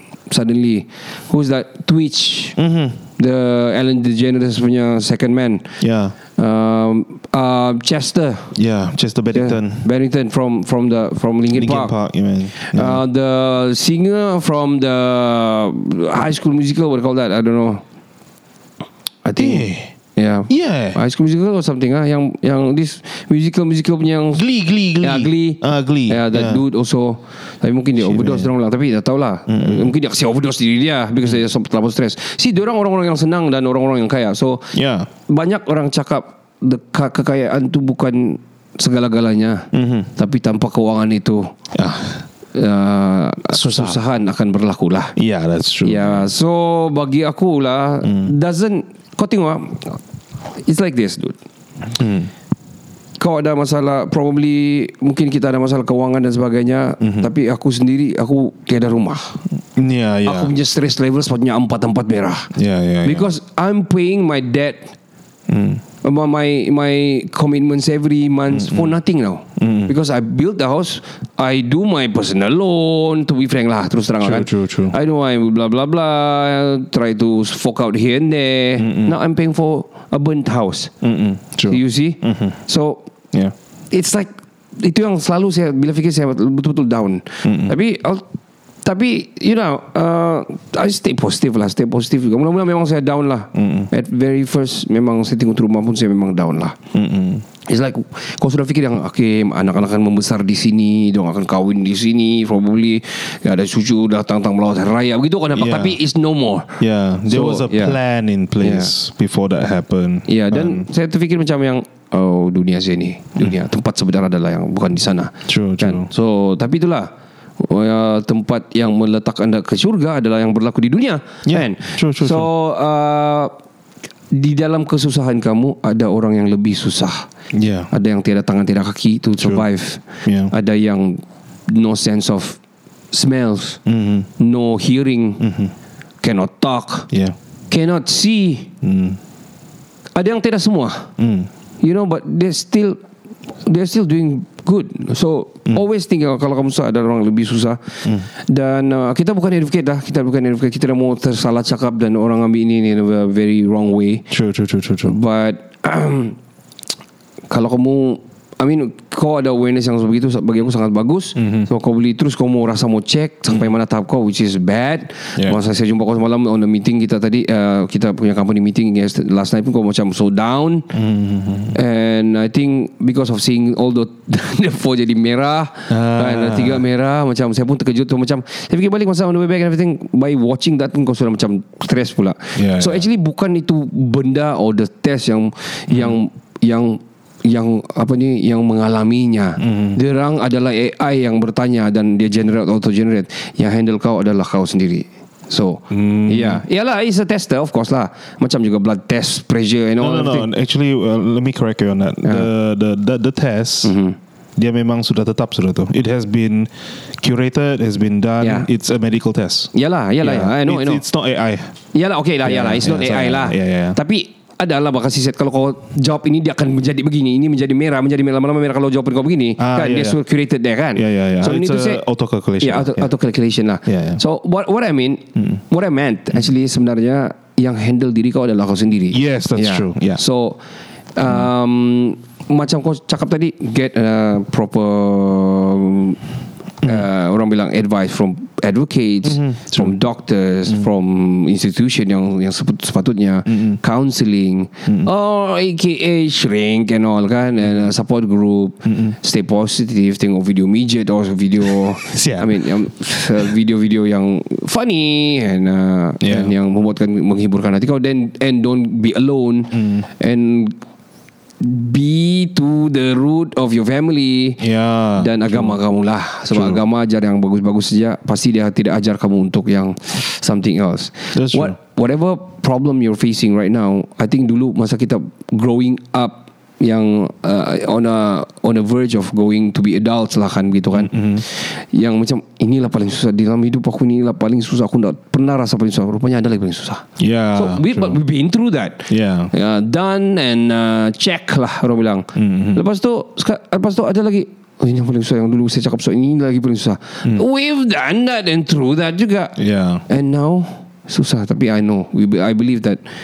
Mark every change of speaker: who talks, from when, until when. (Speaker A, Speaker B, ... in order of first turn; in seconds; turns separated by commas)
Speaker A: 0.3-2.6, Speaker B: 2.6-3.0, Speaker A: 3.2-5.7, Speaker B: 5.8-6.2, Speaker A: 6.4-8.5, Speaker B: 8.6-9.9, Speaker A: 9.3-11.9, Speaker B: 11.5-13.0, Speaker A: 12.6-17.8, Speaker A: 19.2-19.6, Speaker B: 19.4-19.9, Speaker A: 20.2-24.4, Speaker B: 20.5-21.0, Speaker B: 24.4-26.6, Speaker A: 25.0-34.7, Speaker B: 28.0-28.5, Speaker B: 29.5-29.9, Speaker B: 34.7-35.1, Speaker A: 35.3-41.5, Speaker B: 39.7-40.1, Speaker B: 41.8-42.2, Speaker A: 42.5-45.1, Speaker B: 43.5-44.0, Speaker B: 45.2-46.3, Speaker A: 45.9-50.0, Speaker B: 48.0-48.3, Speaker A: 50.6-51.4, Speaker B: 52.0-52.3, Speaker A: 53.2-59.4, Speaker B: 57.0-57.3, Speaker B: 59.8-60.5, Speaker A: 60.2-62.5, Speaker B: 62.5-63.3, Speaker A: 63.0-64.9, Speaker B: 65.5-65.8, Speaker A: 66.0-80.9, Speaker B: 68.5-68.9, Speaker B: 69.6-69.9, Speaker B: 74.2-75.0, Speaker B: 78.8-79.2, Speaker B: 81.0-82.6, Speaker A: 81.7-83.0, Speaker A: 83.9-88.2, Speaker B: 87.4-87.8, Speaker A: 88.8-96.8, Speaker B: 93.5-93.9, Speaker B: 96.9-97.4, Speaker A: 97.7-106.8, Speaker B: 105.5-106.0, Speaker B: 106.8-110.8, Speaker A: 107.3-108.0, Speaker A: 108.6-108.9, Speaker A: 110.3-117.1, Speaker B: 115.5-116.1, Speaker A: 117.6-123.5, Speaker B: 121.5-122.5, Speaker A: 124.3-127.3, Speaker B: 127.5-127.9, Speaker A: 127.9-132.6, Speaker B: 129.4-129.7, Speaker B: 130.2-130.5, Speaker A: 133.1-133.8, Speaker B: 133.9-134.3, Speaker A: 134.4-135.4, Speaker B: 135.4-135.7, Speaker A: 136.2-137.1, Speaker B: 137.1-137.4, Speaker A: 137.7-138.7, Speaker B: 138.8-139.2, Speaker A: 140.2-141.1, Speaker B: 141.2-141.5, Speaker A: 141.8-143.0, Speaker A: 143.7-154.3, Speaker B: 154.3-155.2, Speaker A: 155.1-156.4, Speaker A: 157.5-170.9, Speaker B: 161.4-161.7, Speaker B: 170.9-171.8, Speaker A: 171.7-200.5, Speaker B: 175.9-176.8, Speaker B: 182.6-183.1, Speaker B: 185.9-186.2, Speaker B: 189.6-190.0, Speaker B: 195.9-196.6, Speaker B: 200.0-203.9, Speaker A: 202.2-202.5, Speaker A: 203.8-204.2, Speaker B: 204.6-211.7, Speaker A: 208.4-208.7, Speaker A: 209.7-211.0, Speaker A: 211.9-222.0, Speaker B: 212.4-214.0, Speaker B: 219.6-220.2, Speaker B: 220.9-223.1, Speaker A: 222.6-230.6, Speaker B: 223.8-224.2, Speaker B: 225.4-225.6, Speaker B: 229.1-230.2, Speaker A: 231.2-236.2, Speaker B: 236.8-237.1, Speaker A: 236.8-260.7, Speaker B: 239.2-240.0, Speaker B: 243.5-243.8, Speaker B: 244.9-245.1, Speaker B: 248.8-249.2, Speaker B: 251.7-252.6, Speaker B: 256.2-256.5, Speaker B: 259.7-260.1, Speaker A: 261.6-264.6, Speaker B: 264.6-265.8, Speaker A: 265.2-299.6, Speaker B: 266.5-266.8, Speaker B: 271.3-271.8, Speaker B: 280.9-281.4, Speaker B: 287.2-288.2, Speaker B: 289.1-289.5, Speaker B: 292.4-292.8, Speaker B: 299.6-300.0, Speaker A: 300.1-303.0